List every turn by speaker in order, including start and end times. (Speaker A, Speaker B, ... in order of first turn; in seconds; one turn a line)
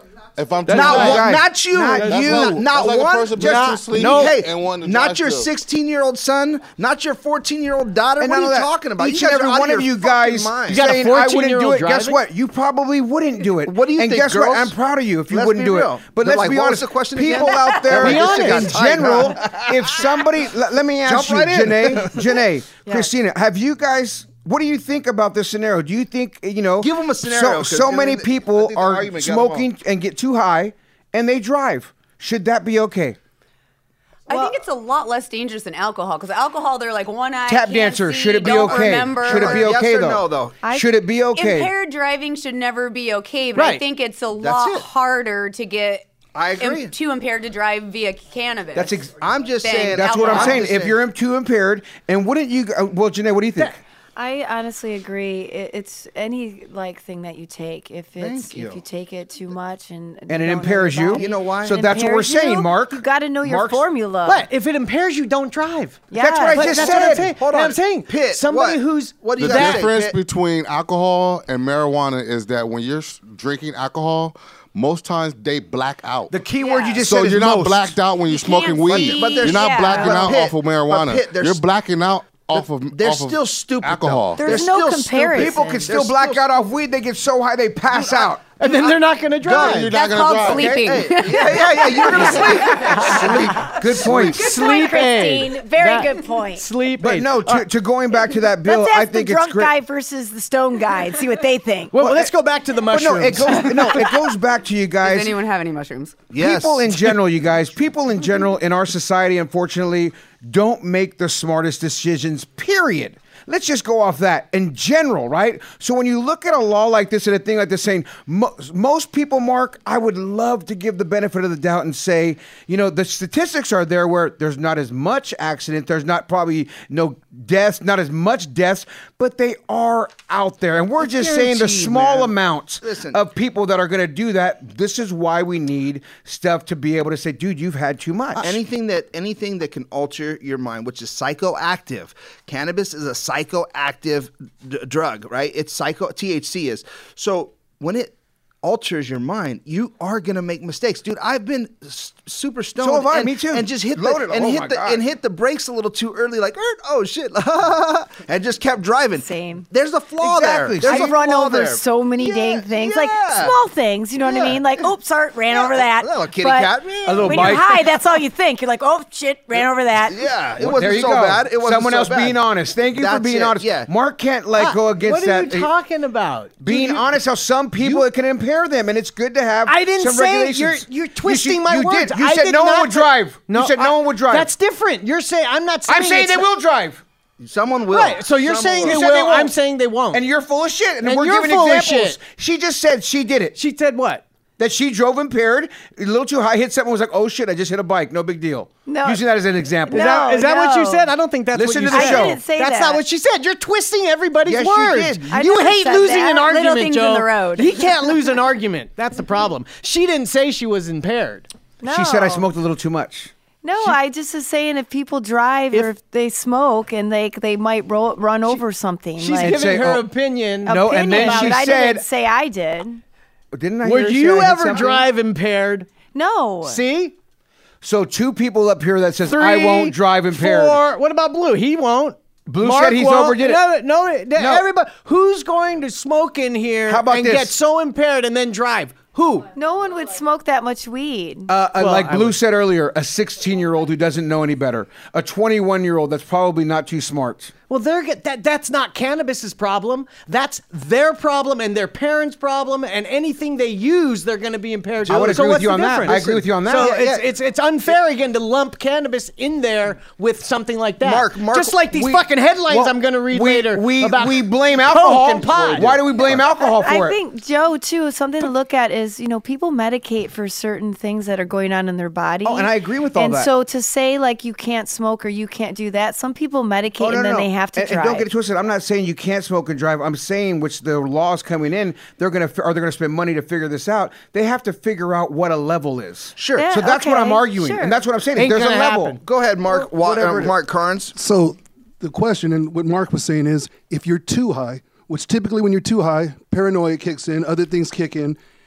Speaker A: 0.4-1.4
Speaker B: 0.7-2.7
Speaker C: 0.7-10.8
Speaker D: 0.8-1.2
Speaker A: 2.0-5.5
Speaker D: 3.4-4.3
Speaker B: 8.2-33.2
Speaker D: 10.7-12.2
Speaker C: 13.6-14.8
Speaker C: 15.3-20.1
Speaker D: 17.9-18.8
Speaker C: 21.1-22.4
Speaker C: 26.8-29.7
Speaker E: 34.3-39.7
Speaker F: 34.3-34.6
Speaker B: 37.5-41.7
Speaker C: 38.4-40.6
Speaker F: 40.6-40.9
Speaker E: 41.3-49.0
Speaker D: 43.5-43.8
Speaker C: 44.4-44.9
Speaker C: 46.4-46.9
Speaker B: 48.7-49.1
Speaker C: 49.1-51.0
Speaker E: 49.6-50.7
Speaker B: 49.9-53.8
Speaker F: 54.2-64.5
Speaker C: 58.2-58.8
Speaker B: 60.3-63.8
Speaker C: 61.2-61.9
Speaker D: 64.2-69.9
Speaker F: 66.1-66.7
Speaker B: 66.1-67.3
Speaker C: 66.4-70.2
Speaker A: 69.4-76.4
Speaker B: 76.3-78.0
Speaker E: 76.6-77.0
Speaker A: 77.0-84.6
Speaker E: 78.2-80.3
Speaker C: 78.9-81.7
Speaker F: 79.8-80.3
Speaker C: 82.5-86.5
Speaker F: 84.4-85.9
Speaker B: 85.3-88.4
Speaker C: 87.9-93.6
Speaker D: 88.6-90.0
Speaker A: 89.6-90.9
Speaker E: 89.9-92.4
Speaker B: 90.5-90.8
Speaker B: 92.2-94.5
Speaker F: 92.7-96.7
Speaker D: 94.0-97.7
Speaker B: 97.0-99.7
Speaker F: 98.6-102.0
Speaker D: 101.9-104.1
Speaker B: 102.0-102.3
Speaker B: 102.9-105.4
Speaker E: 105.0-106.2
Speaker C: 106.3-107.2
Speaker B: 106.4-138.6
Speaker C: 131.0-133.2
Speaker C: 138.4-163.6
Speaker B: 152.8-155.0
Speaker F: 159.2-159.7
Speaker B: 160.2-161.1
Speaker F: 160.8-170.2
Speaker C: 164.2-164.6
Speaker C: 165.5-167.8
Speaker B: 167.1-167.7
Speaker C: 170.1-172.4
Speaker B: 170.6-175.7
Speaker C: 172.9-173.9
Speaker D: 174.6-177.0
Speaker B: 176.6-184.5
Speaker C: 176.7-177.0
Speaker C: 177.8-178.1
Speaker D: 179.7-186.5
Speaker B: 185.9-187.0
Speaker C: 187.4-189.1
Speaker D: 187.9-190.2
Speaker B: 188.8-189.5
Speaker B: 190.1-193.6
Speaker D: 191.0-192.2
Speaker D: 193.6-194.2
Speaker B: 194.6-200.2
Speaker F: 198.9-199.2
Speaker F: 199.9-201.2
Speaker D: 199.9-211.5
Speaker B: 201.5-202.4
Speaker F: 201.9-203.0
Speaker C: 204.4-205.6
Speaker F: 205.3-206.5
Speaker E: 206.4-207.8
Speaker F: 211.8-212.5
Speaker B: 211.9-214.0
Speaker F: 213.6-219.7
Speaker D: 219.2-221.6
Speaker B: 219.3-220.1
Speaker B: 220.7-222.1
Speaker F: 220.7-223.0
Speaker B: 223.5-225.0
Speaker D: 223.8-225.9
Speaker F: 224.7-225.0
Speaker F: 226.1-226.8
Speaker D: 226.6-227.1
Speaker B: 227.8-230.8
Speaker D: 229.2-239.5
Speaker B: 232.5-233.6
Speaker B: 234.4-234.7
Speaker B: 236.9-237.6
Speaker F: 239.5-241.5
Speaker B: 241.5-247.5
Speaker D: 241.8-242.4
Speaker D: 247.7-266.0
Speaker B: 255.0-257.1
Speaker C: 256.0-257.2
Speaker C: 261.0-262.2
Speaker B: 261.9-267.2
Speaker F: 266.6-278.3
Speaker B: 272.4-273.5
Speaker B: 277.0-289.2
Speaker C: 286.4-286.7
Speaker F: 286.6-288.0
Speaker D: 288.4-290.5
Speaker C: 289.2-291.1
Speaker G: 291.2-298.4